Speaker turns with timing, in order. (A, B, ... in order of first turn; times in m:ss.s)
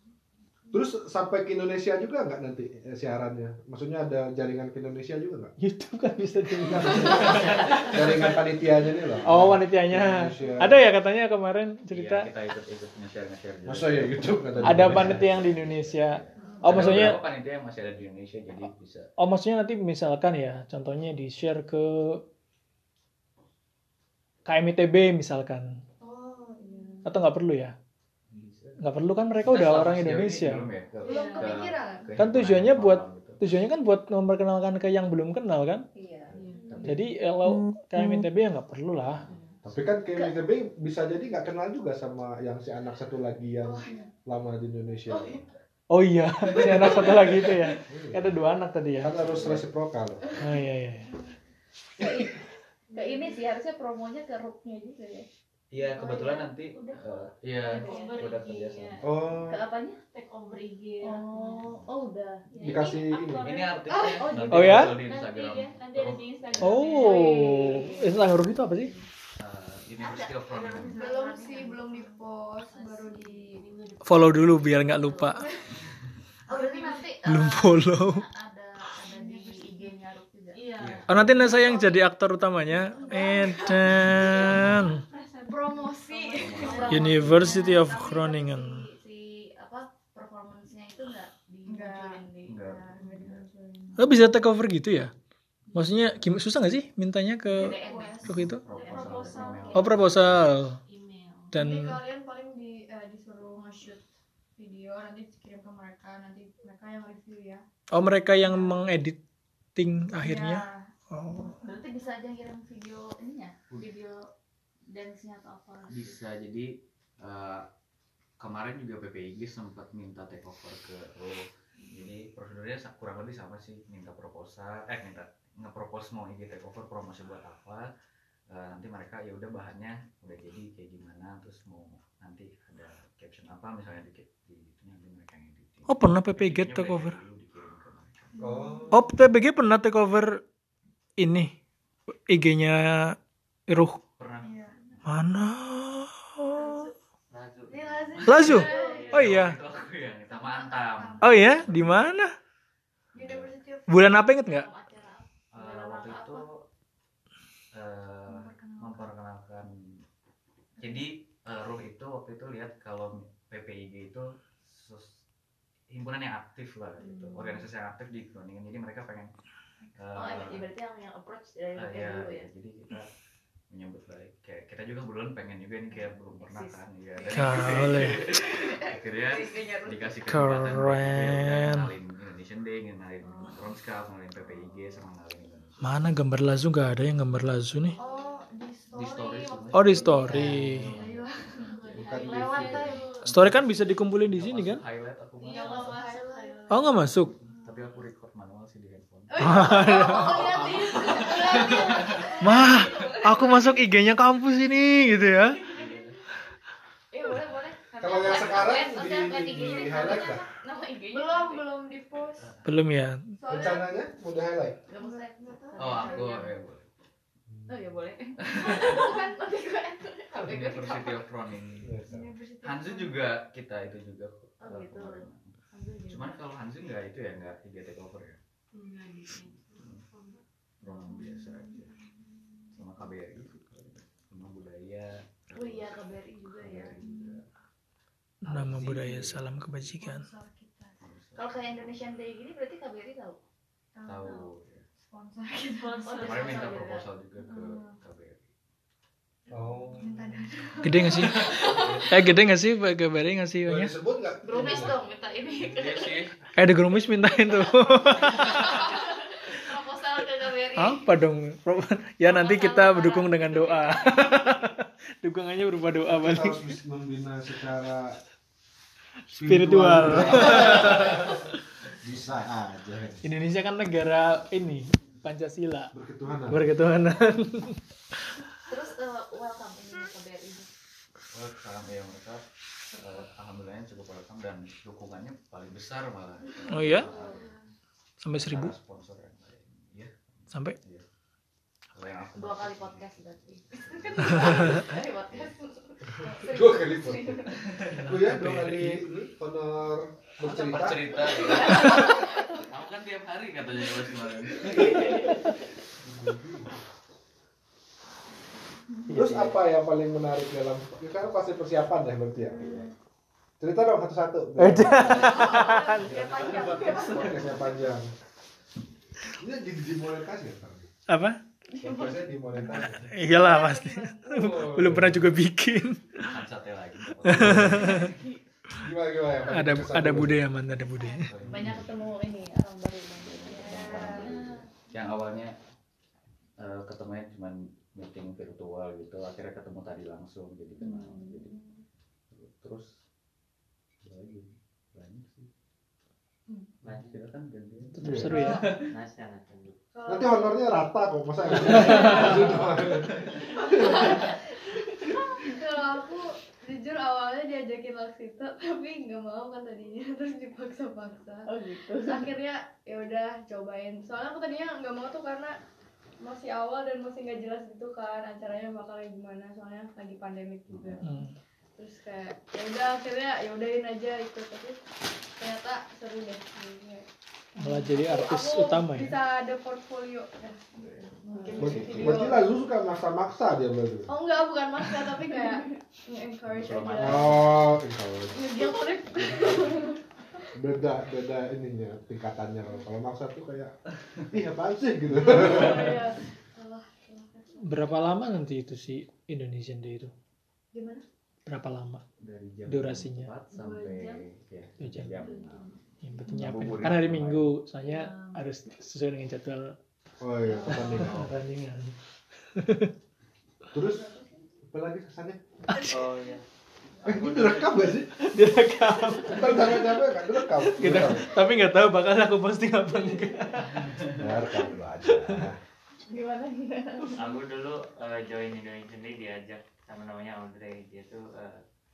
0:00.7-0:05.5 A
0:05.6-0:08.3 B
0:06.6-0:10.8 A
0:07.0-0:07.3 C
0:09.3-0:12.3 B
0:11.9-0:19.1 C
0:13.7-0:15.3 A
0:14.7-0:17.2 B
0:16.7-0:17.1 A
0:19.2-0:22.2 B
0:24.5-0:25.7 B
0:26.0-0:27.0 D
0:26.6-0:27.2 E
0:27.0-0:27.7 B
0:28.3-0:28.8 C
0:28.8-0:30.7 B
0:29.4-0:33.4 C
0:31.0-0:31.6 F
0:31.0-0:32.1 D
0:32.2-0:35.9 B
0:36.0-0:36.4 E
0:36.3-0:36.8 F
0:36.8-0:39.2 B
0:39.2-0:39.6 F
0:39.7-0:45.4 A
0:40.1-0:40.4 E
0:43.6-0:43.9 E
0:45.1-0:45.4 E
0:45.9-0:49.1 B
0:46.5-0:47.3 E
0:47.9-0:48.3 A
0:49.0-0:50.2 A
0:49.1-0:49.7 C
0:50.4-0:51.1 B
0:52.0-0:55.3 E
0:52.9-0:53.4 F
0:55.7-0:59.3 C
0:56.0-0:58.4 E
0:57.7-0:59.0 F
0:59.0-0:59.6 A
0:59.4-1:00.0 E
1:00.1-1:01.6 F
1:01.0-1:02.4 E
1:02.5-1:07.7 F
1:02.6-1:03.6 A
1:03.4-1:06.9 C
1:04.0-1:05.0 E
1:04.5-1:05.0 B
1:06.6-1:08.9 B
1:06.9-1:09.1 E
1:09.4-1:11.1 C
1:10.0-1:12.2 E
1:10.9-1:13.6 D
1:12.6-1:15.6 F
1:14.0-1:15.4 B
1:16.5-1:20.7 E
1:16.5-1:17.1 D
1:17.3-1:18.2 B
1:19.0-1:20.0 D
1:20.5-1:21.0 F
1:20.8-1:21.1 A
1:21.1-1:25.0 B
1:21.4-1:21.8 D
1:23.0-1:23.8 D
1:23.1-1:23.7 E
1:23.1-1:27.3 F
1:23.9-1:24.8 C
1:25.5-1:27.8 D
1:26.4-1:27.6 C
1:26.7-1:34.2 E
1:26.9-1:28.9 B
1:31.7-1:32.3 D
1:32.5-1:33.4 C
1:33.0-1:33.5 D
1:34.0-1:35.1 B
1:35.7-1:37.7 B
1:35.8-1:36.3 C
1:37.5-1:39.9 E
1:37.6-1:39.5 D
1:38.2-1:40.6 C
1:38.2-1:38.6 B
1:38.7-1:40.0 F
1:39.7-1:40.8 B
1:40.9-1:41.5 F
1:41.5-1:42.0 B
1:41.6-1:44.0 D
1:44.6-1:47.6 D
1:47.9-1:49.2 B
1:48.5-1:48.8 D
1:49.8-1:51.6 B
1:50.2-1:50.9 D
1:51.5-1:54.2 E
1:54.9-1:56.2 E
1:55.9-1:57.7 C
1:58.4-2:07.9 C
2:08.5-2:18.6 C
2:15.9-2:17.2 B
2:18.4-2:18.8 D
2:18.4-2:19.1 A
2:18.9-2:20.4 B
2:21.2-2:21.5 B
2:22.3-2:23.2 B
2:23.7-2:24.0 B
2:24.2-2:25.1 C
2:24.4-2:24.8 D
2:25.0-2:26.9 B
2:26.6-2:26.9 D
2:27.3-2:29.4 G
2:27.7-2:29.3 D
2:28.0-2:32.1 C
2:28.2-2:29.1 E
2:28.3-2:29.6 B
2:30.3-2:31.7 D
2:31.2-2:32.3 B
2:33.1-2:33.6 C
2:33.2-2:34.2 D
2:33.9-2:34.7 B
2:34.3-2:36.4 E
2:35.5-2:36.6 C
2:37.7-2:39.7 C
2:38.3-2:39.1 D
2:40.8-2:45.1 C
2:45.9-2:49.3 C
2:47.0-2:47.7 F
2:50.0-2:50.7 C
2:50.1-2:52.5 E
2:51.8-2:53.1 C
2:53.7-3:05.8 C
2:55.9-3:00.2 E
2:57.3-2:58.2 B
3:00.3-3:01.9 B
3:03.2-3:03.6 E
3:05.8-3:08.0 B
3:08.0-3:11.8 D
3:08.9-3:11.4 C
3:09.7-3:10.9 B
3:11.6-3:13.0 F
3:11.9-3:13.0 A
3:12.2-3:16.1 C
3:12.2-3:13.2 E
3:13.3-3:14.8 B
3:15.4-3:17.0 F
3:15.4-3:16.6 D
3:16.7-3:17.3 B
3:17.4-3:22.2 C
3:19.3-3:22.4 D
3:19.4-3:20.3 B
3:19.8-3:22.8 E
3:20.1-3:23.5 F
3:22.4-3:25.6 B
3:25.7-3:26.2 C
3:27.1-3:31.7 E
3:28.0-3:30.4 A
3:28.3-3:28.7 C
3:31.1-3:32.5 D
3:32.4-3:32.7 C
3:32.6-3:33.2 B
3:33.4-3:33.9 D
3:33.4-3:33.8 E
3:33.5-3:34.8 A
3:34.9-3:36.5 E
3:34.9-3:36.5 D
3:35.8-3:36.9 C
3:37.7-3:41.3 E
3:38.4-3:39.1 C
3:38.8-3:39.2 D
3:40.4-3:42.0 C
3:41.8-3:42.2 A
3:42.0-3:43.2 D
3:42.6-3:48.4 C
3:44.6-3:46.4 E
3:48.7-3:50.4 F
3:49.8-3:50.1 C
3:50.8-3:52.0 C
3:50.9-3:52.8 D
3:52.7-3:56.0 C
3:55.5-3:57.1 E
3:56.6-3:57.4 C
3:57.0-3:57.4 D
3:58.4-4:00.3 B
3:58.5-3:59.9 C
4:00.0-4:01.0 D
4:01.0-4:01.5 C
4:01.4-4:03.4 E
4:04.0-4:04.4 D
4:04.1-4:04.8 C
4:05.0-4:06.6 D
4:05.7-4:07.0 F
4:06.0-4:06.9 E
4:06.2-4:08.5 C
4:07.4-4:08.0 D
4:09.5-4:10.3 A
4:09.5-4:12.0 D
4:10.8-4:13.9 B
4:10.9-4:12.2 C
4:13.7-4:15.0 A
4:14.4-4:16.3 E
4:15.6-4:16.4 C
4:16.6-4:18.7 B
4:17.1-4:21.1 E
4:20.8-4:26.6 B
4:22.2-4:24.6 E
4:26.1-4:28.2 A
4:29.3-4:31.4 B
4:29.3-4:31.4 A
4:30.6-4:31.0 C
4:32.0-4:33.2 A
4:33.2-4:35.9 B
4:35.9-4:36.6 A
4:36.5-4:37.8 B
4:38.7-4:40.7 E
4:41.3-4:47.6 C
4:46.7-4:47.1 B
4:47.0-4:47.5 E
4:47.2-4:47.5 D
4:48.2-4:48.8 B
4:48.3-4:51.1 C
4:50.5-4:50.8 B
4:51.9-4:55.5 C
4:52.3-4:57.6 E
4:56.2-4:56.6 D
4:56.3-5:02.0 A
4:57.6-4:58.0 C
4:57.9-4:59.0 B
5:00.4-5:05.3 C
5:01.3-5:02.2 E
5:01.6-5:02.0 D
5:04.8-5:05.2 E
5:05.2-5:05.5 B
5:06.0-5:06.7 A
5:09.1-5:09.6 B
5:09.1-5:12.9 A
5:12.5-5:12.9 D
5:13.6-5:15.5 A
5:14.6-5:16.1 B
5:14.9-5:17.9 E
5:16.0-5:18.1 A
5:19.4-5:20.9 A
5:21.1-5:21.4 B
5:21.8-5:22.2 D
5:21.8-5:23.0 A
5:22.5-5:26.3 B
5:23.2-5:24.9 D
5:24.3-5:25.3 A
5:26.2-5:28.2 C
5:27.2-5:28.1 B
5:27.3-5:27.8 A
5:27.8-5:28.4 E
5:28.8-5:30.5 A
5:29.5-5:31.3 B
5:31.3-5:31.9 C
5:31.4-5:31.8 A
5:31.5-5:34.4 E
5:33.2-5:35.6 C
5:33.5-5:34.3 D
5:34.1-5:34.6 F
5:36.6-5:41.6 C
5:40.8-5:41.4 E
5:40.8-5:41.7 D
5:42.3-5:42.9 C
5:44.0-5:45.5 C
5:46.8-5:47.2 G
5:46.8-5:48.9 C
5:48.0-5:48.8 B
5:48.0-5:48.4 A
5:48.3-5:48.8 D
5:48.9-5:49.8 G
5:49.9-5:50.6 D
5:50.1-5:54.1 A
5:51.5-5:52.7 D
5:51.7-5:52.3 B
5:53.5-5:54.2 D
5:53.7-5:54.2 F
5:53.8-5:54.2 E
5:55.4-6:01.5 D
6:01.5-6:02.3 E
6:02.0-6:05.6 D
6:06.2-6:11.0 D
6:10.7-6:11.1 C
6:11.0-6:11.3 B
6:11.8-6:14.8 D
6:15.4-6:22.5 D
6:17.6-6:19.2 B
6:20.8-6:21.1 C
6:21.2-6:22.4 E
6:21.6-6:24.1 A
6:24.1-6:27.6 D
6:25.3-6:25.7 E
6:26.5-6:27.5 C
6:27.0-6:28.4 A
6:28.4-6:30.0 D
6:28.5-6:29.4 E
6:30.5-6:33.8 A
6:34.3-6:36.0 A
6:35.2-6:38.2 D
6:37.6-6:40.1 B
6:40.8-6:41.0 D
6:41.5-6:42.0 B
6:42.2-6:45.7 C
6:42.7-6:43.3 B
6:43.5-6:44.3 F
6:44.8-6:45.2 B
6:45.1-6:45.8 F
6:46.0-6:49.8 B
6:46.3-6:47.6 C
6:47.8-6:48.4 F
6:50.2-6:51.3 A
6:50.5-6:51.0 E
6:50.7-6:51.9 B
6:52.5-6:52.9 B
6:53.7-6:54.1 A
6:54.7-6:55.4 A
6:55.7-6:56.0 B
6:55.8-6:56.4 G
6:57.0-6:58.0 G
6:57.0-6:58.1 A
6:58.2-7:04.4 B
6:59.2-7:01.3 A
7:03.8-7:04.1 C
7:04.1-7:05.6 A
7:05.1-7:05.4 B
7:06.1-7:07.4 E
7:07.1-7:11.6 G